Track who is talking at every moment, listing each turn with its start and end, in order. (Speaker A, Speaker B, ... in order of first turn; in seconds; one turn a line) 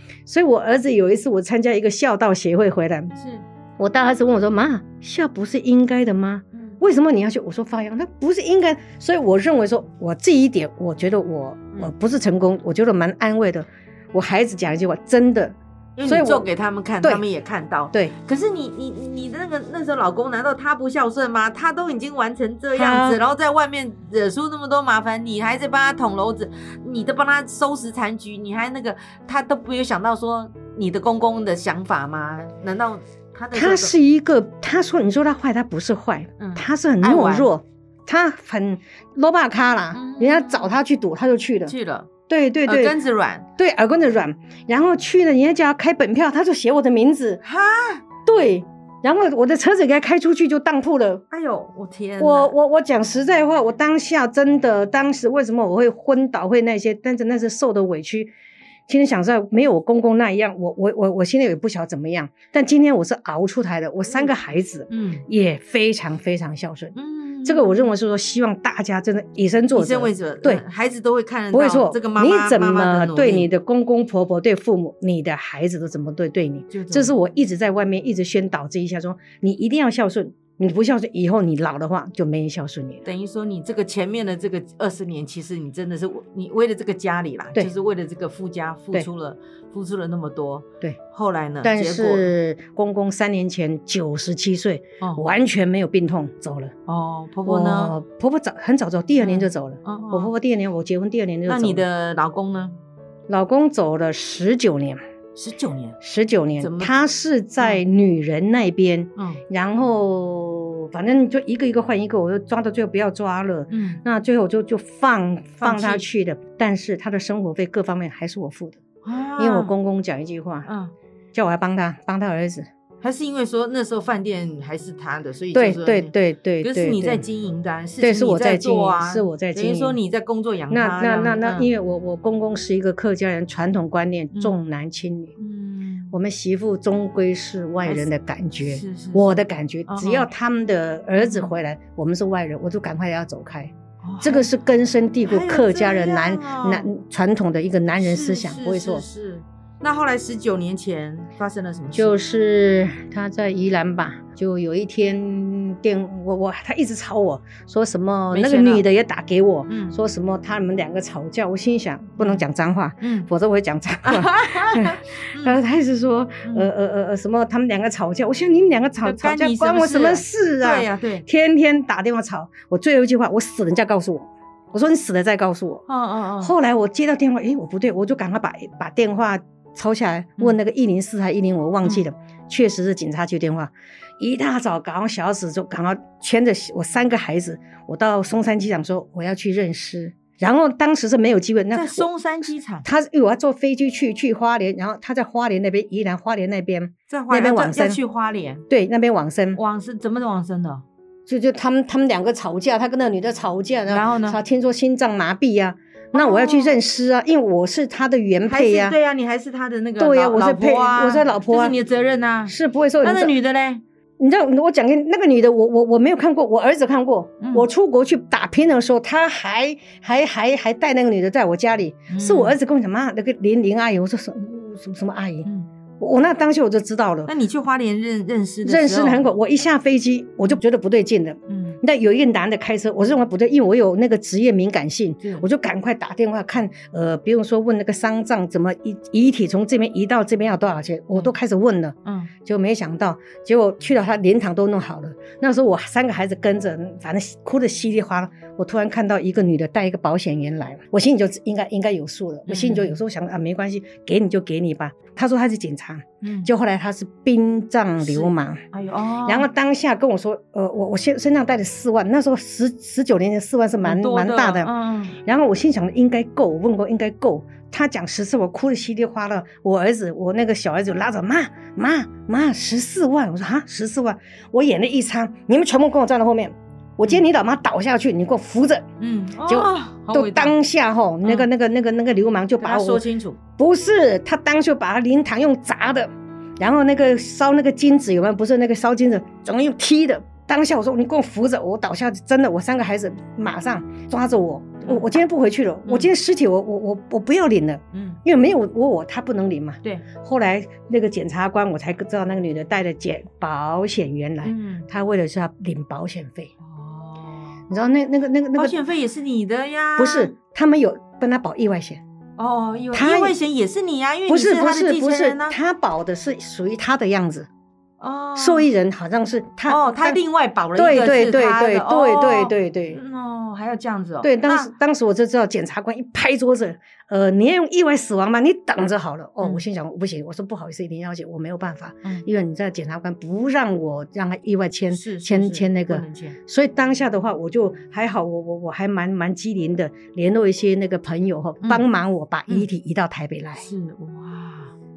Speaker A: 0.2-3.1
Speaker B: 3.1-3.4
Speaker A: 3.8-16.4
Speaker B: 6.5-6.8
Speaker B: 16.0-33.9
Speaker A: 22.7-23.2
Speaker A: 33.5-41.7
Speaker B: 36.4-37.5
Speaker B: 39.9-40.8
Speaker B: 41.6-42.1
Speaker A: 42.3-43.0
Speaker B: 42.6-43.5
Speaker A: 43.6-47.4
Speaker B: 47.4-48.0
Speaker A: 48.2-51.2
Speaker B: 51.3-52.5
Speaker A: 52.2-58.3
Speaker A: 58.9-66.9
Speaker B: 64.9-65.2
Speaker B: 66.9-67.9
Speaker A: 67.4-70.6
Speaker B: 69.7-73.5
Speaker A: 71.5-83.0
Speaker B: 76.7-77.1
Speaker B: 83.0-92.3
Speaker A: 91.6-96.7
Speaker B: 95.0-95.2
Speaker B: 96.9-97.9
Speaker A: 97.5-101.8
Speaker B: 99.2-100.3
Speaker B: 101.5-102.8
Speaker A: 103.3-105.0
Speaker B: 105.3-106.0
Speaker A: 106.0-118.8
Speaker B: 106.6-106.9
Speaker B: 109.2-109.4
Speaker B: 113.7-114.0
Speaker B: 115.6-116.0
Speaker B: 119.0-119.7
Speaker A: 119.4-120.7
Speaker B: 120.7-120.9
Speaker A: 121.3-122.7
Speaker B: 123.0-131.7
Speaker A: 125.5-127.2
Speaker A: 128.0-129.9
Speaker A: 130.7-135.3
Speaker B: 134.3-134.6
Speaker B: 135.4-136.1
Speaker A: 136.1-149.0
Speaker B: 137.8-138.1
Speaker B: 138.6-139.4
Speaker B: 139.9-140.3
Speaker B: 141.2-141.5
Speaker B: 144.0-144.5
Speaker B: 145.2-146.9
Speaker B: 148.0-152.2
Speaker A: 151.9-175.8
Speaker B: 158.3-158.8
Speaker B: 159.7-160.0
Speaker B: 162.2-162.4
Speaker B: 163.0-163.3
Speaker B: 164.0-165.6
Speaker B: 166.4-166.7
Speaker B: 169.0-171.2
Speaker B: 175.9-176.5
Speaker A: 176.4-192.1
Speaker B: 191.7-192.8
Speaker A: 192.8-198.0
Speaker B: 197.1-198.6
Speaker A: 198.7-199.6
Speaker B: 199.5-200.8
Speaker A: 201.3-208.9
Speaker B: 203.9-204.4
Speaker B: 206.1-206.8
Speaker B: 208.5-213.8
Speaker A: 210.0-211.7
Speaker A: 212.5-213.3
Speaker A: 214.2-225.5
Speaker B: 217.4-217.7
Speaker B: 222.1-222.6
Speaker A: 226.0-227.3
Speaker B: 227.2-229.2
Speaker A: 228.6-258.6
Speaker B: 231.5-231.8
Speaker B: 242.0-242.3
Speaker B: 252.5-253.0
Speaker B: 256.2-256.5
Speaker B: 258.0-259.5
Speaker A: 259.2-278.9
Speaker B: 263.8-265.2
Speaker B: 279.0-280.6
Speaker A: 279.4-283.0
Speaker B: 282.6-283.4
Speaker A: 283.6-306.5
Speaker B: 295.9-296.1
Speaker B: 297.9-298.2
Speaker B: 304.4-304.9
Speaker B: 306.6-307.6
Speaker A: 307.7-308.8
Speaker B: 308.6-310.3
Speaker A: 310.0-312.0
Speaker B: 312.4-315.6
Speaker A: 312.9-313.4
Speaker A: 314.3-317.5
Speaker B: 318.0-318.7
Speaker A: 318.4-320.2
Speaker B: 319.7-324.7
Speaker A: 320.8-323.0
Speaker A: 324.2-343.6
Speaker B: 334.9-336.4
Speaker B: 343.6-344.7